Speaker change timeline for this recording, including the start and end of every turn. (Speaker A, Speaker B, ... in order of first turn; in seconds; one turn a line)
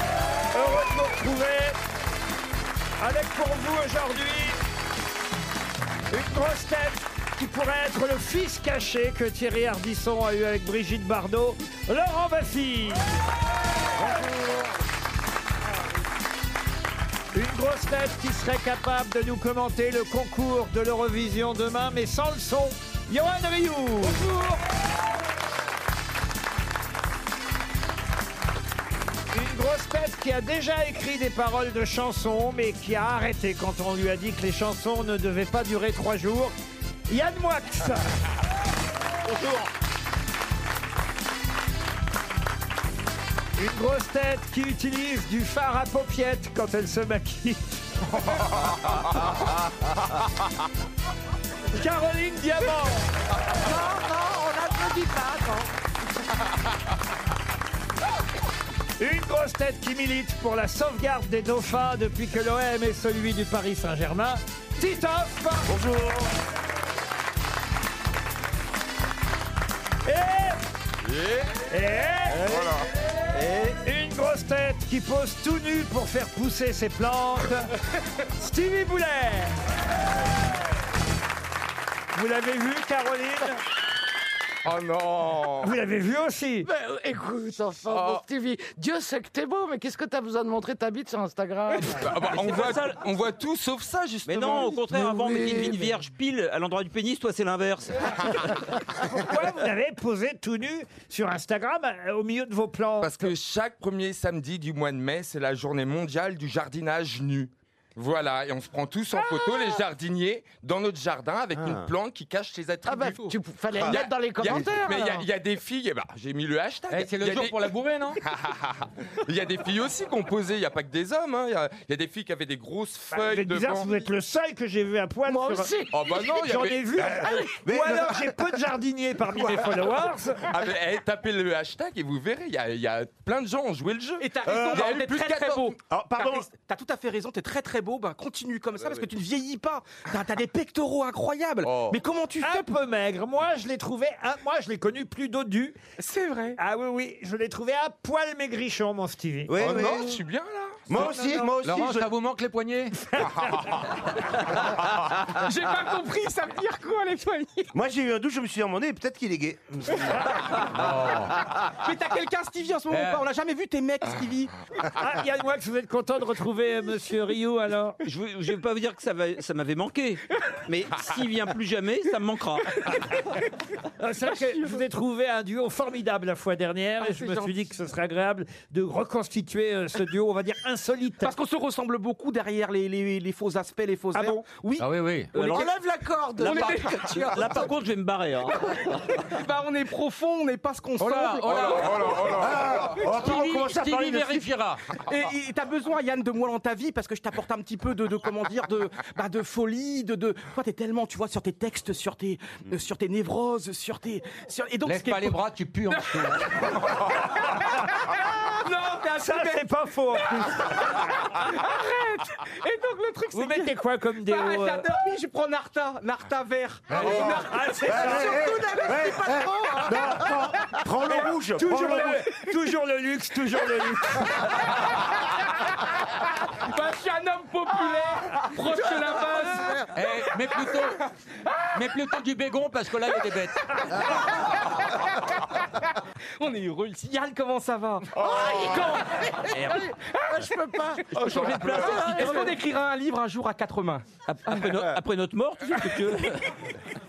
Speaker A: 0.5-1.8
Speaker A: 3.0-4.6
Speaker A: 6.1-13.1
Speaker A: 17.3-24.6
Speaker A: 29.3-36.5
Speaker A: 37.1-38.0
Speaker B: 39.2-39.7
Speaker A: 43.6-47.8
Speaker A: 51.7-53.0
Speaker C: 53.6-55.7
Speaker A: 59.0-65.7
Speaker D: 65.7-66.3
Speaker A: 70.0-70.6
Speaker E: 71.0-71.5
Speaker A: 71.7-72.5
Speaker B: 72.3-72.6
Speaker B: 73.3-73.8
Speaker A: 73.8-77.7
Speaker A: 78.3-79.7
Speaker A: 82.1-83.6
Speaker E: 84.6-85.7
Speaker A: 85.6-86.7
Speaker C: 86.7-92.0
Speaker E: 87.8-88.2
Speaker E: 91.7-94.9
Speaker B: 92.3-92.8
Speaker B: 94.2-98.4
Speaker C: 95.5-95.8
Speaker A: 99.0-103.3
Speaker E: 103.0-123.9
Speaker C: 112.8-115.2
Speaker F: 116.9-118.2
Speaker A: 123.1-125.7
Speaker C: 125.3-126.0
Speaker E: 125.9-127.3
Speaker A: 126.4-130.5
Speaker D: 127.0-128.6
Speaker D: 129.3-129.7
Speaker E: 130.5-135.8
Speaker G: 134.2-142.7
Speaker D: 134.5-134.9
Speaker D: 135.9-136.5
Speaker E: 141.6-142.0
Speaker A: 142.4-145.8
Speaker G: 146.0-146.6
Speaker A: 146.6-149.5
Speaker D: 149.5-150.2
Speaker E: 149.6-151.1
Speaker D: 150.9-152.1
Speaker F: 150.9-153.1
Speaker E: 153.4-153.8
Speaker G: 155.2-157.7
Speaker D: 157.7-160.3
Speaker F: 160.6-161.4
Speaker G: 161.6-164.6
Speaker F: 162.9-163.2
Speaker A: 164.9-168.0
Speaker B: 168.0-173.0
Speaker A: 173.8-181.3
Speaker G: 177.0-177.5
Speaker G: 181.2-185.7
Speaker F: 184.8-185.4
Speaker B: 185.3-185.8
Speaker C: 185.6-187.7
Speaker G: 186.3-187.7
Speaker B: 186.8-189.0
Speaker G: 188.5-193.3
Speaker F: 191.0-194.9
Speaker E: 191.5-192.5
Speaker D: 192.4-194.5
Speaker G: 195.0-209.6
Speaker F: 204.8-206.8
Speaker A: 209.2-210.9
Speaker G: 210.4-220.2
Speaker A: 213.3-214.9
Speaker D: 217.0-219.3
Speaker A: 217.4-218.5
Speaker C: 219.1-219.8
Speaker D: 219.8-222.2
Speaker A: 221.1-224.7
Speaker G: 226.4-229.9
Speaker F: 229.9-231.0
Speaker F: 231.8-233.8
Speaker G: 236.4-244.1
Speaker E: 238.3-238.7
Speaker C: 240.6-241.0
Speaker B: 241.1-242.5
Speaker E: 241.2-241.8
Speaker B: 244.3-246.6